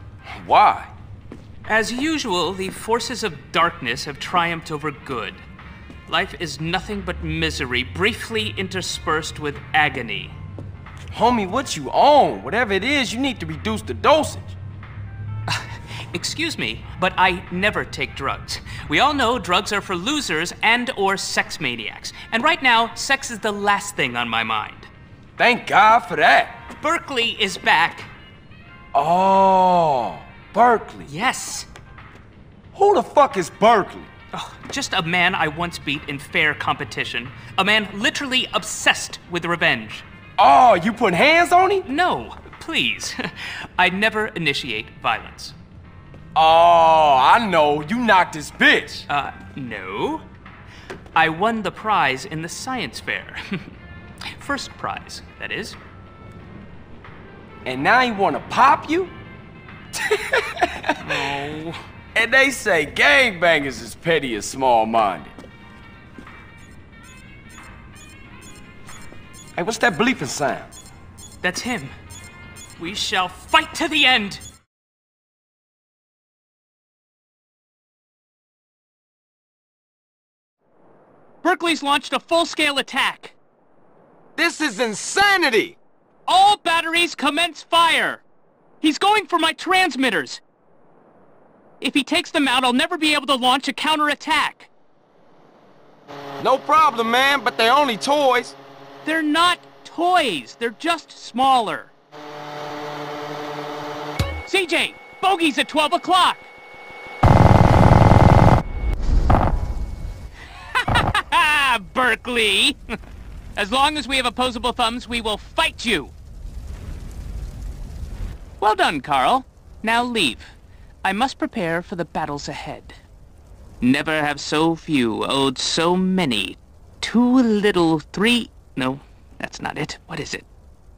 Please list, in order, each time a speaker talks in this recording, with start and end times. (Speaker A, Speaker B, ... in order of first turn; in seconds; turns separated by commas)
Speaker A: 0.2-0.9, Speaker B: 1.7-5.4, Speaker B: 6.1-10.3, Speaker A: 11.1-14.6, Speaker B: 15.5-24.9, Speaker A: 25.4-26.6, Speaker B: 26.8-28.1, Speaker A: 28.9-31.1, Speaker B: 31.1-31.7, Speaker A: 32.7-34.1, Speaker B: 34.3-40.0, Speaker A: 40.4-41.9, Speaker B: 41.9-45.6, Speaker A: 46.4-49.1, Speaker B: 49.1-50.2, Speaker B: 51.1-53.7, Speaker B: 54.4-55.8, Speaker A: 57.6-59.1, Speaker A: 60.0-61.4, Speaker B: 61.0-61.8, Speaker A: 62.1-65.3, Speaker A: 69.6-70.7, Speaker B: 71.4-72.0, Speaker B: 72.8-74.4, Speaker B: 81.4-83.3, Speaker A: 84.4-85.8, Speaker B: 86.3-88.2, Speaker B: 88.8-90.4, Speaker B: 91.8-94.7, Speaker A: 96.4-98.6, Speaker B: 99.0-101.9, Speaker B: 104.5-106.5, Speaker B: 110.7-112.8, Speaker B: 113.6-116.1, Speaker B: 118.6-123.0, Speaker B: 123.8-130.5